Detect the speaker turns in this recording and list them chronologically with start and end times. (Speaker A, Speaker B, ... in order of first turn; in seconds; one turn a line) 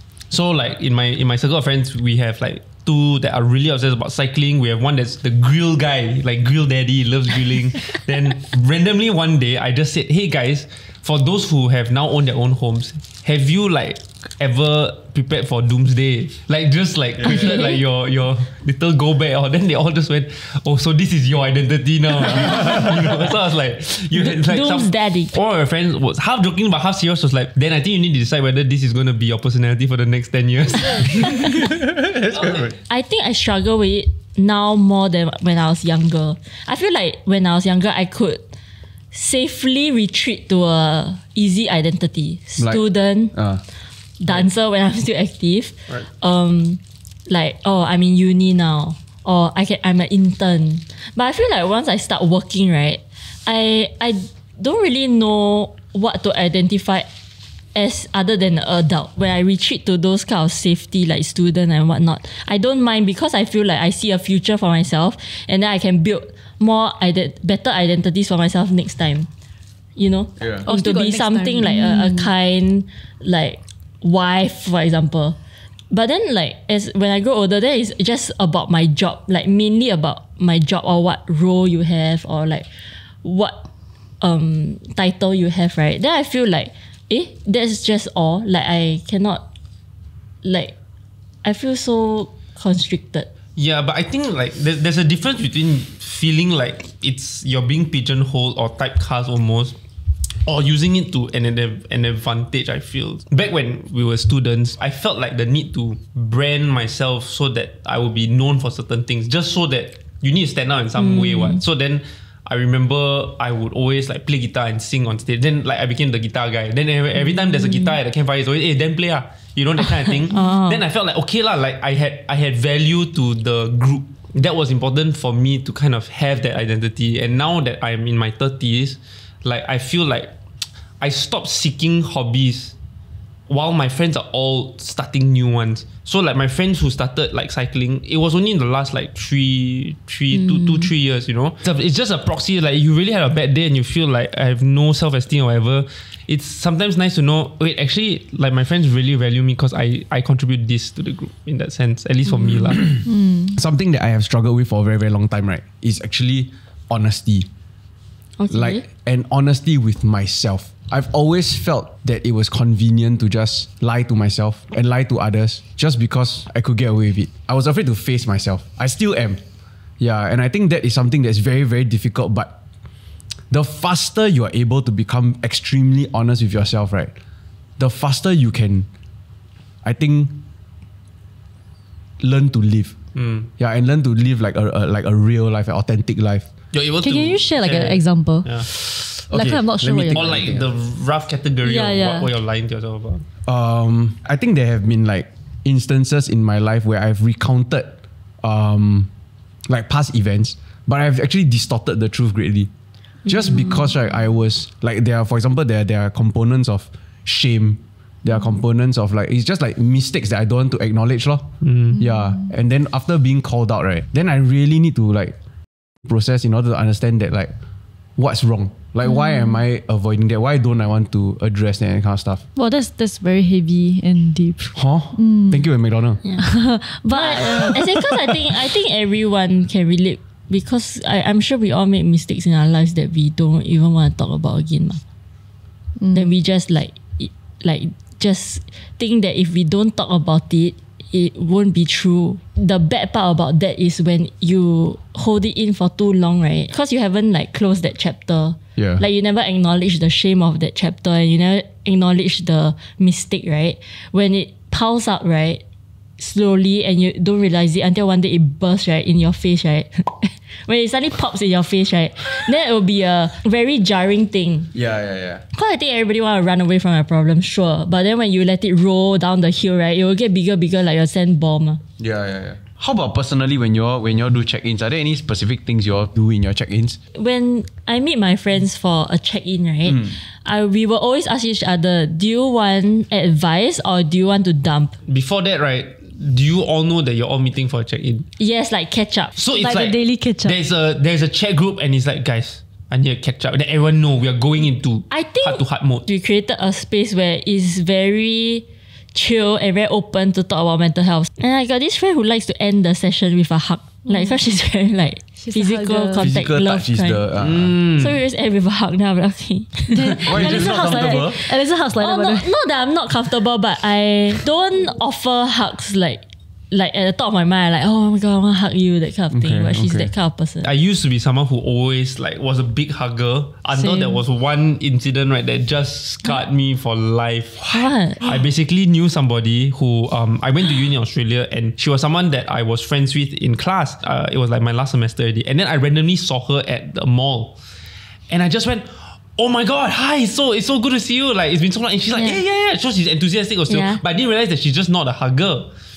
Speaker A: 0.3-31.7
Speaker B: 17.3-17.7
Speaker B: 24.2-25.3
Speaker C: 31.6-32.8
Speaker B: 32.9-38.4
Speaker B: 39.1-43.4
Speaker C: 43.3-43.6
Speaker B: 44.2-57.1
Speaker B: 57.8-69.3
Speaker B: 70.0-75.4
Speaker C: 70.4-70.7
Speaker D: 70.7-72.3
Speaker B: 75.9-82.7
Speaker B: 83.2-83.6
Speaker B: 84.2-89.4
Speaker B: 90.4-90.7
Speaker B: 91.4-93.3
Speaker A: 93.6-99.8
Speaker A: 100.5-130.3
Speaker B: 111.0-111.6
Speaker B: 117.3-118.0
Speaker B: 120.3-120.8
Speaker A: 131.0-132.7
Speaker A: 133.5-152.8
Speaker B: 140.3-140.9
Speaker D: 153.1-153.6
Speaker C: 153.5-157.5
Speaker B: 158.4-158.8
Speaker C: 158.5-169.4
Speaker C: 170.0-172.5
Speaker C: 173.5-177.1
Speaker C: 177.8-178.9
Speaker C: 179.8-180.4
Speaker C: 182.2-183.0
Speaker A: 183.2-183.5
Speaker C: 183.6-186.5
Speaker A: 186.7-188.7
Speaker D: 187.0-190.3
Speaker C: 189.3-190.7
Speaker A: 190.1-193.2
Speaker D: 191.6-192.3
Speaker C: 193.5-199.1
Speaker C: 199.7-202.7
Speaker C: 203.3-215.3
Speaker A: 211.6-212.0
Speaker C: 216.1-217.5
Speaker C: 218.2-222.4
Speaker D: 219.1-219.4
Speaker D: 222.6-225.7
Speaker C: 224.8-226.2
Speaker D: 226.4-228.1
Speaker B: 227.1-235.0
Speaker D: 236.0-236.3
Speaker B: 236.1-255.6
Speaker C: 248.8-249.0
Speaker B: 256.2-264.7
Speaker C: 264.7-265.4
Speaker B: 265.5-271.8
Speaker C: 272.0-277.0
Speaker B: 277.1-284.9
Speaker C: 279.9-280.1
Speaker A: 285.1-288.3
Speaker B: 288.4-289.3
Speaker A: 289.4-296.1
Speaker D: 289.6-290.6
Speaker B: 295.1-307.2
Speaker D: 305.4-306.3
Speaker C: 306.2-307.8
Speaker A: 307.4-308.2
Speaker B: 308.0-311.4
Speaker D: 309.9-312.5
Speaker C: 310.1-311.4
Speaker B: 312.0-320.7
Speaker C: 319.3-320.1
Speaker A: 320.6-337.6
Speaker B: 323.8-324.2
Speaker B: 327.6-328.2
Speaker A: 338.3-345.7
Speaker B: 342.1-342.4
Speaker B: 343.7-344.0